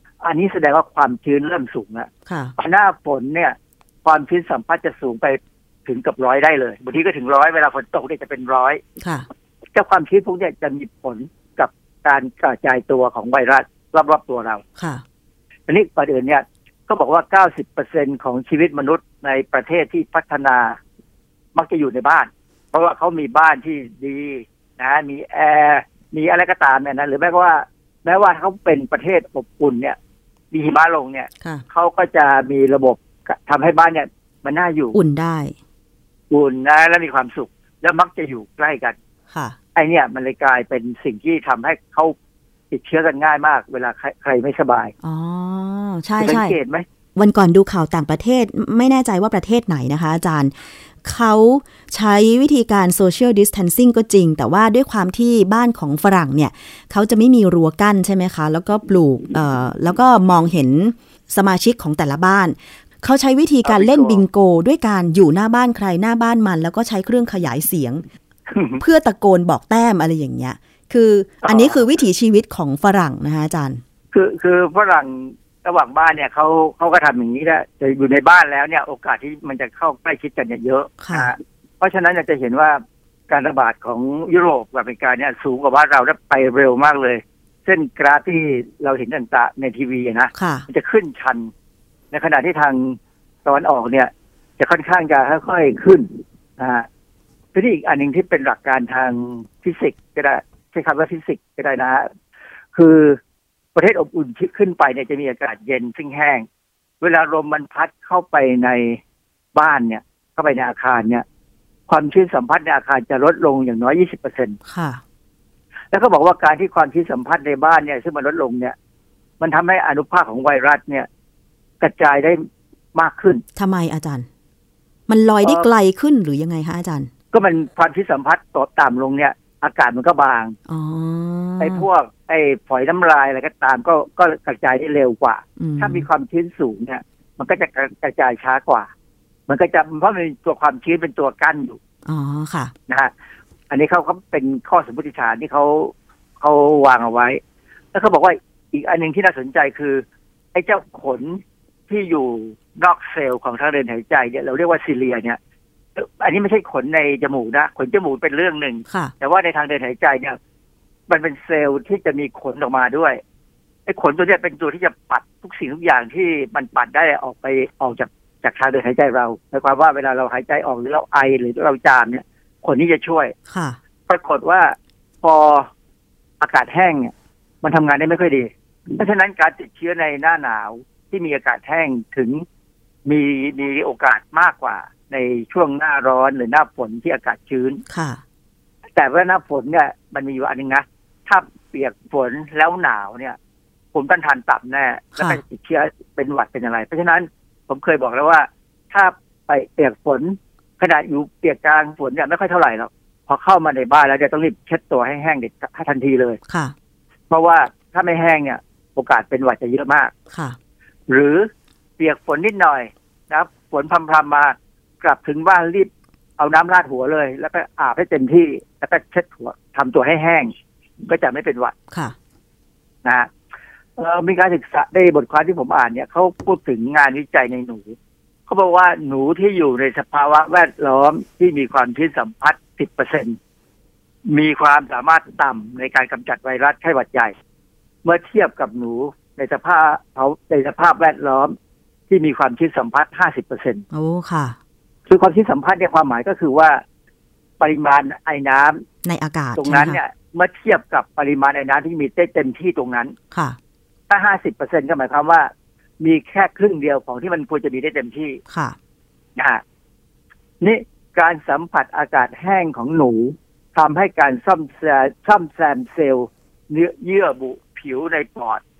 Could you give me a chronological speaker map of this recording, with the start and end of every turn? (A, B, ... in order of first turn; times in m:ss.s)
0:00.2-0:08.8 A
0:02.2-0:02.5 B
0:09.0-0:09.2 B
0:09.7-0:14.6 A
0:14.8-0:15.0 B
0:15.7-0:20.8 A
0:21.5-0:30.0 A
0:30.5-0:35.0 A
0:34.9-0:35.5 B
0:36.3-0:39.0 A
0:39.3-0:39.6 B
0:39.7-0:42.1 A
0:42.7-0:44.9 A
0:45.0-0:46.5 B
0:46.2-0:46.8 A
0:47.2-1:08.0 B
1:03.6-1:04.2 A
1:08.5-1:08.8 A
1:08.8-1:13.8 B
1:11.4-1:11.9 A
1:14.1-1:31.5 A
1:21.0-1:21.3 B
1:30.3-1:30.6 B
1:32.1-1:36.8 A
1:37.5-1:42.1 A
1:42.7-1:43.2 A
1:43.7-1:46.4 A
1:47.0-1:49.0 A
1:49.5-1:51.2 A
1:51.9-1:54.6 A
1:54.6-1:55.0 B
1:55.9-1:58.8 A
1:59.4-2:01.1 A
2:01.8-2:02.4 A
2:02.9-2:03.4 A
2:03.6-2:04.3 B
2:05.1-2:07.1 B
2:07.3-2:10.6 A
2:10.7-2:11.8 B
2:11.6-2:18.9 A
2:15.6-2:16.0 B
2:19.5-2:21.8 A
2:22.0-2:22.7 B
2:23.7-2:27.4 A
2:27.9-2:35.4 A
2:36.0-2:40.4 A
2:38.9-2:39.1 B
2:41.1-2:43.2 A
2:43.8-2:53.3 A
2:53.5-2:53.8 B
2:54.1-2:55.7 A
2:56.4-3:02.4 A
3:03.0-3:07.8 A
3:07.9-3:08.2 B
3:08.9-3:13.4 A
3:13.9-3:26.4 A
3:15.2-3:15.4 B
3:26.5-3:26.7 B
3:27.3-3:30.1 A
3:30.3-3:30.6 B
3:31.1-3:40.5 A
3:41.0-3:41.7 A
3:43.0-3:43.3 A
3:44.0-3:48.0 A
3:48.5-3:53.4 A
3:54.3-3:57.3 A
3:58.0-4:01.5 A
4:02.1-4:03.8 A
4:03.9-4:04.6 B
4:05.1-4:06.8 A
4:07.6-4:08.8 A
4:09.0-4:10.0 B
4:09.6-4:13.2 A
4:13.3-4:13.6 B
4:14.1-4:18.4 A
4:18.5-4:18.8 B
4:19.4-4:19.6 A
4:20.6-4:28.6 A